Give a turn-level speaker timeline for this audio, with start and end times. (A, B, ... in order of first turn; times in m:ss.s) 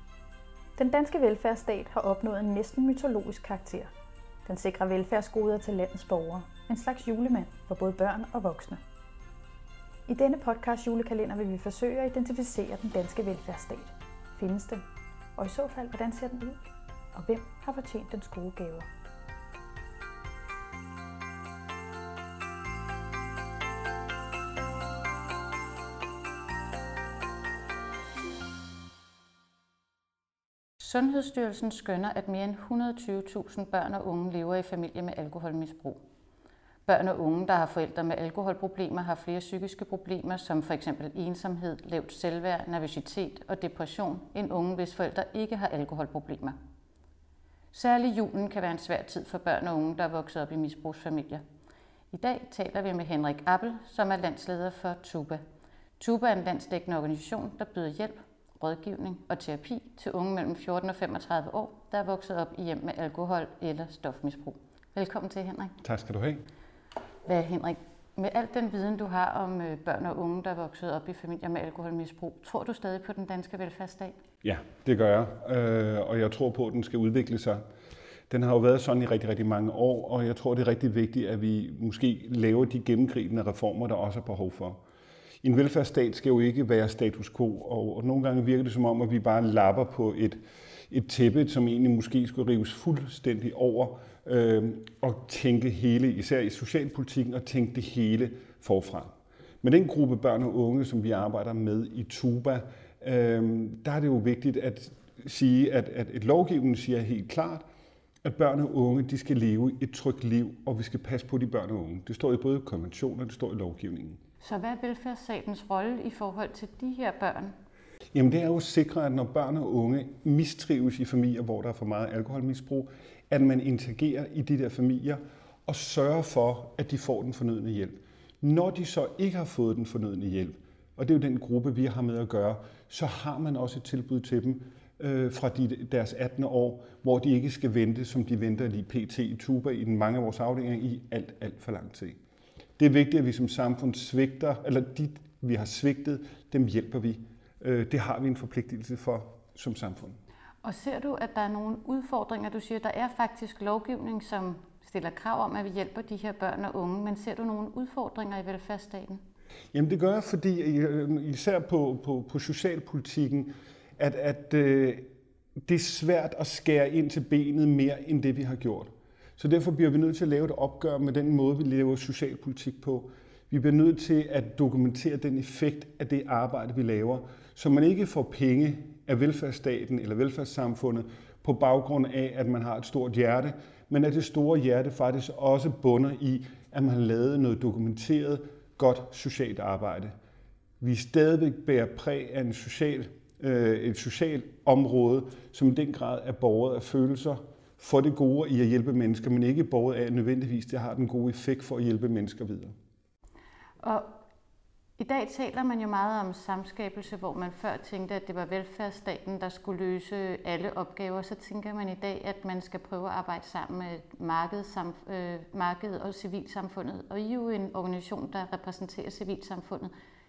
0:00.8-0:03.9 A
0:04.4-0:08.8 A
0:10.1-0:14.8 A
0:15.4-0:18.9 A
0:30.8-0:36.0 B
0:36.8-0:46.6 B
0:47.7-0:51.4 B
0:52.1-0:55.4 B
0:56.0-1:05.7 B
1:05.8-1:06.4 C
1:07.2-1:14.2 B
1:14.4-1:17.6 C
1:18.3-1:24.8 C
1:25.4-1:30.4 C
1:30.9-1:47.6 C
1:48.2-1:54.2 C
1:54.4-1:57.5 B
1:58.1-2:22.2 C
2:22.8-2:30.2 C
2:30.6-2:39.2 B
2:39.7-2:45.1 C
2:45.6-3:10.1 C
3:10.8-3:22.7 C
3:23.8-3:24.1 B
3:25.0-3:39.9 B